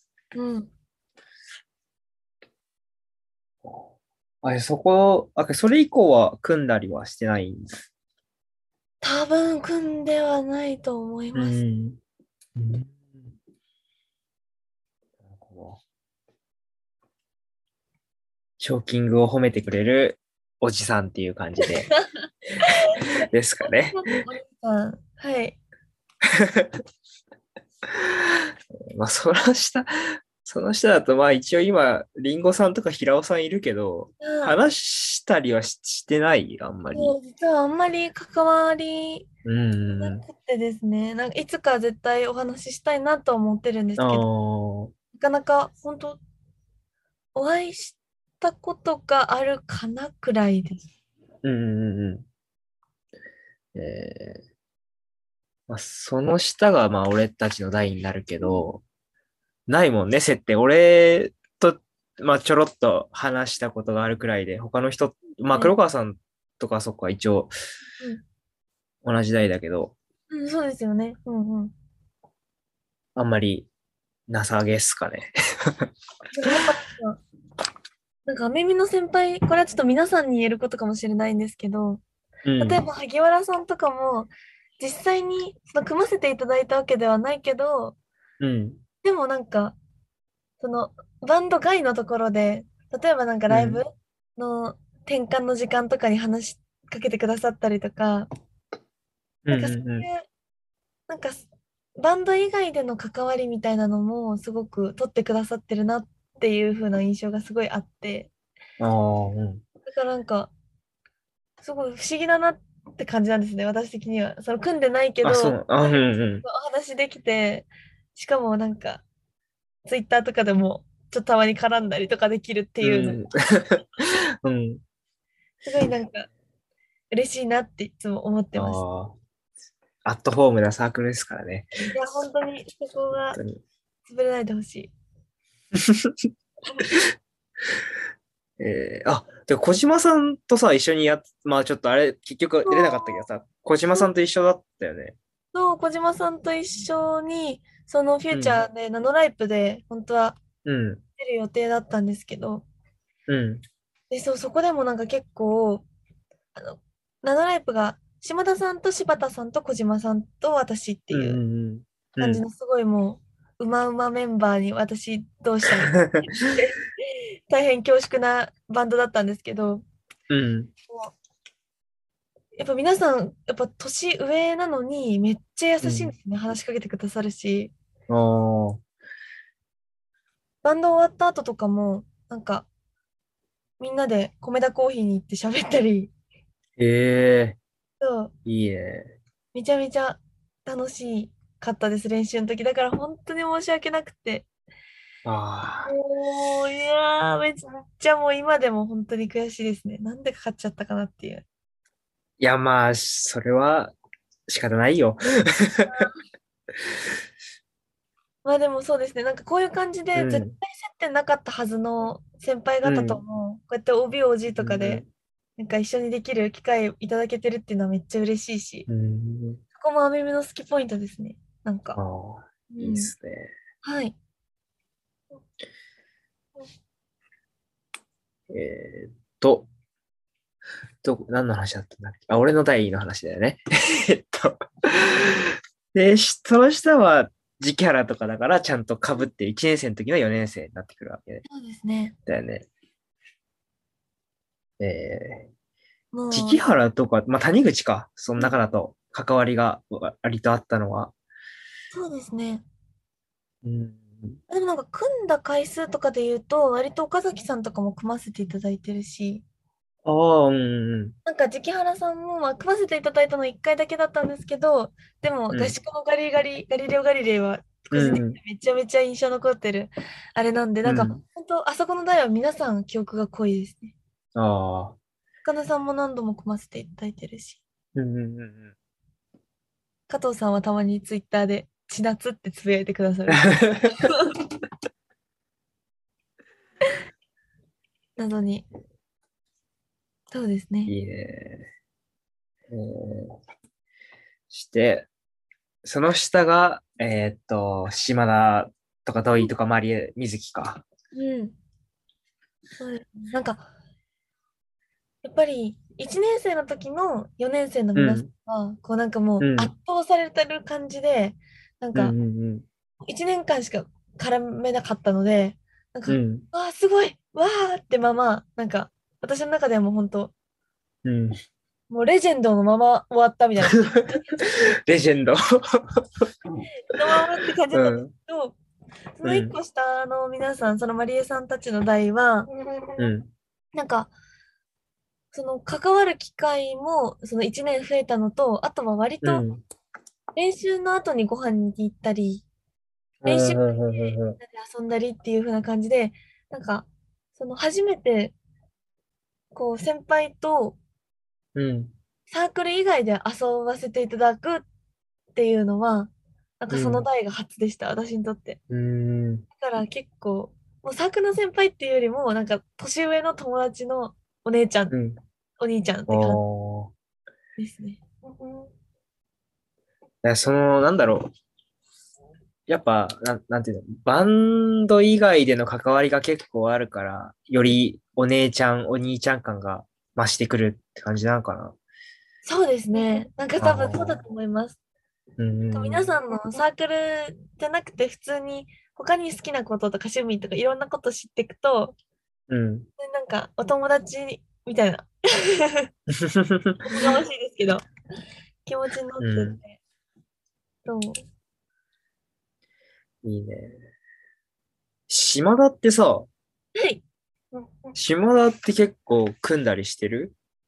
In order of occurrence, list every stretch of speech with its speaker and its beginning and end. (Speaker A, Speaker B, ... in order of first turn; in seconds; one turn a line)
Speaker A: 0.3-0.7
Speaker B: 4.4-7.7
Speaker A: 9.0-11.6
Speaker B: 11.3-12.0
Speaker B: 12.6-13.3
Speaker B: 15.2-15.8
Speaker B: 18.6-21.9
Speaker A: 21.6-22.0
Speaker A: 22.6-25.6
Speaker B: 23.2-24.0
Speaker B: 26.4-26.7
Speaker B: 28.9-29.9
Speaker B: 30.4-37.1
Speaker A: 34.2-34.6
Speaker A: 36.9-39.3
Speaker B: 39.5-40.2
Speaker A: 39.9-44.2
Speaker B: 44.0-44.9
Speaker A: 45.1-46.2
Speaker A: 47.3-50.9
Speaker B: 51.4-52.2
Speaker B: 53.8-54.4
Speaker B: 55.7-58.8
Speaker B: 59.7-67.5
Speaker B: 69.0-69.9
Speaker A: 70.3-71.7
Speaker B: 73.2-73.7
Speaker B: 74.3-75.9
Speaker A: 76.3-77.2
Speaker A: 78.2-82.0
Speaker B: 82.4-82.8
Speaker A: 82.6-88.0
Speaker B: 88.4-88.8
Speaker A: 89.0-89.8
Speaker A: 90.6-98.3
Speaker B: 93.5-93.8
Speaker B: 99.4-100.1
Speaker A: 99.5-100.2
Speaker A: 101.1-101.4
Speaker A: 102.0-108.3
Speaker B: 108.8-109.6
Speaker A: 109.9-110.5
Speaker A: 111.6-119.0
Speaker B: 115.2-116.4
Speaker A: 119.8-123.2
Speaker B: 122.8-123.8
Speaker B: 124.4-124.8
Speaker A: 125.6-126.3
Speaker A: 127.1-128.8
Speaker B: 128.6-129.1
Speaker B: 130.1-131.7
Speaker A: 131.8-133.4
Speaker B: 133.3-133.6
Speaker A: 134.1-134.9
Speaker B: 135.8-136.1
Speaker A: 136.7-137.0
Speaker B: 138.6-145.2
Speaker A: 142.7-143.2
Speaker A: 145.5-150.4
Speaker B: 148.3-148.6
Speaker B: 150.7-151.0
Speaker A: 151.2-152.6
Speaker B: 153.3-153.6
Speaker A: 154.1-155.9
Speaker A: 156.6-161.4
Speaker B: 161.1-162.4
Speaker A: 162.2-169.8
Speaker B: 170.3-170.7
Speaker A: 172.6-177.7
Speaker B: 175.8-176.1
Speaker B: 178.1-178.8
Speaker A: 180.6-182.7
Speaker A: 183.8-186.1
Speaker B: 186.8-187.6
Speaker A: 188.0-188.3
Speaker B: 188.4-189.2
Speaker A: 189.5-194.5
Speaker B: 195.2-195.9
Speaker A: 195.9-201.4
Speaker B: 202.4-203.9
Speaker B: 204.5-206.1
Speaker A: 205.9-206.2
Speaker A: 208.4-215.0
Speaker B: 210.1-210.6
Speaker B: 212.8-213.2
Speaker B: 214.6-215.1
Speaker A: 215.6-218.9
Speaker B: 218.9-219.6
Speaker A: 219.8-222.0
Speaker B: 221.9-223.5
Speaker A: 222.7-223.1
Speaker A: 223.8-224.2
Speaker B: 228.5-229.7
Speaker B: 231.0-241.4
Speaker A: 241.4-242.1
Speaker B: 242.3-242.7
Speaker B: 244.8-245.5
Speaker A: 246.1-246.6
Speaker B: 246.3-251.1
Speaker A: 251.9-252.6
Speaker B: 253.6-254.4
Speaker A: 254.5-259.4
Speaker B: 260.1-261.1
Speaker A: 261.2-273.9
Speaker B: 267.9-268.4
Speaker B: 270.8-271.2
Speaker B: 274.4-274.9
Speaker A: 275.4-277.6
Speaker B: 277.9-278.7
Speaker A: 280.1-284.3
Speaker B: 283.4-284.0
Speaker A: 288.2-288.6
Speaker A: 290.3-290.9
Speaker B: 290.9-291.7
Speaker B: 292.7-293.4
Speaker B: 294.5-295.1
Speaker B: 295.8-300.8
Speaker A: 301.1-301.6
Speaker A: 302.8-303.6
Speaker A: 305.2-312.1
Speaker B: 307.9-308.3
Speaker B: 309.4-309.7
Speaker B: 311.9-312.6
Speaker A: 313.0-320.3
Speaker B: 316.1-316.4
Speaker B: 321.1-321.3
Speaker A: 321.9-324.5
Speaker B: 323.7-324.0
Speaker B: 324.9-326.0
Speaker A: 326.8-328.6
Speaker B: 327.7-328.1
Speaker A: 329.2-332.5
Speaker B: 329.2-329.6
Speaker B: 333.0-333.3
Speaker A: 333.7-334.1
Speaker A: 335.3-339.4
Speaker B: 339.2-339.6
Speaker A: 340.4-342.4
Speaker B: 343.2-344.4
Speaker A: 343.2-348.4
Speaker A: 349.5-350.8
Speaker B: 351.6-351.9
Speaker A: 352.3-354.6
Speaker A: 355.4-358.6
Speaker B: 356.7-357.1
Speaker B: 358.7-359.4
Speaker A: 359.6-364.9
Speaker B: 364.9-365.2
Speaker A: 365.6-366.4
Speaker B: 366.1-366.9
Speaker A: 367.6-368.7
Speaker B: 370.2-371.3
Speaker B: 372.7-381.8
Speaker A: 382.4-384.8
Speaker B: 383.6-384.2
Speaker B: 385.4-386.1
Speaker A: 385.7-391.9
Speaker B: 392.5-392.9
Speaker A: 393.0-395.9
Speaker B: 396.3-396.8
Speaker A: 396.9-397.9
Speaker A: 398.6-399.8
Speaker B: 399.2-399.6
Speaker A: 400.9-401.2
Speaker B: 403.2-403.8
Speaker B: 405.1-406.3
Speaker A: 406.8-407.0
Speaker B: 407.9-410.4